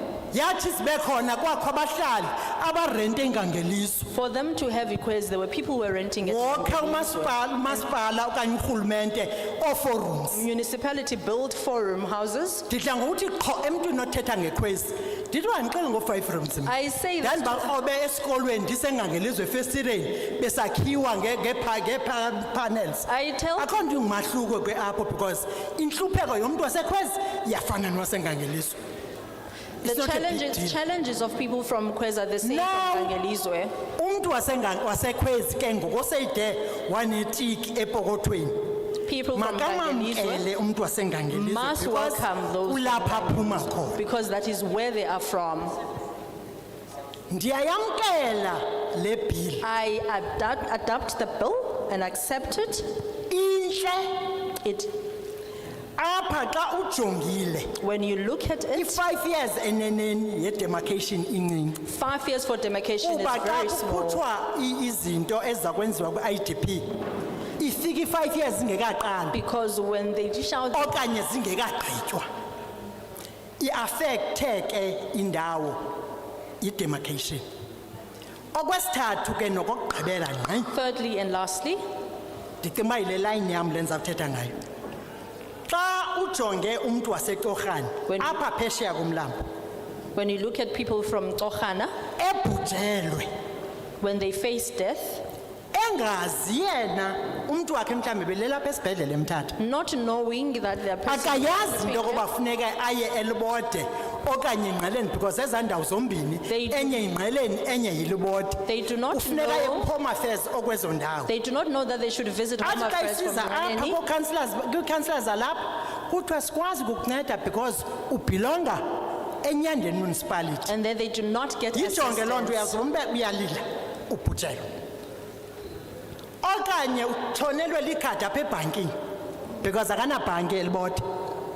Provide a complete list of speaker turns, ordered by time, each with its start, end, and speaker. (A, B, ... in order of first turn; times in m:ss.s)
0:00.3-0:04.1 A
0:04.1-0:07.8 B
0:06.2-0:10.4 A
0:10.3-0:12.7 B
0:12.7-0:28.8 A
0:16.6-0:17.7 B
0:23.0-0:23.7 B
0:29.8-0:33.7 B
0:29.8-0:30.8 A
0:32.4-0:33.2 A
0:34.0-0:38.6 A
0:39.0-0:40.5 B
0:39.3-0:44.0 A
0:41.3-0:45.8 B
0:47.3-0:49.6 A
0:49.6-0:52.9 B
0:53.3-0:54.3 A
0:54.6-0:54.9 B
0:56.0-0:57.7 A
0:57.8-0:59.0 B
0:58.7-1:01.8 A
1:01.8-1:04.2 B
1:03.0-1:06.8 A
1:07.6-1:09.4 A
1:09.3-1:11.0 B
1:10.7-1:12.2 A
1:13.6-1:15.8 A
1:16.6-1:17.4 A
1:18.5-1:20.7 A
1:20.7-1:21.8 B
1:22.6-1:24.5 A
1:25.7-1:29.3 A
1:28.0-1:28.4 B
1:30.1-1:31.9 B
1:32.2-1:33.3 A
1:34.0-1:35.2 B
1:35.7-1:39.6 A
1:39.6-1:42.3 B
1:41.0-1:51.3 A
1:46.5-1:47.1 B
1:48.6-1:49.9 B
1:51.2-1:54.0 B
1:52.6-1:58.8 A
1:59.4-2:00.7 A
2:00.6-2:02.8 B
2:01.7-2:04.7 A
2:06.4-2:08.9 A
2:09.6-2:11.0 A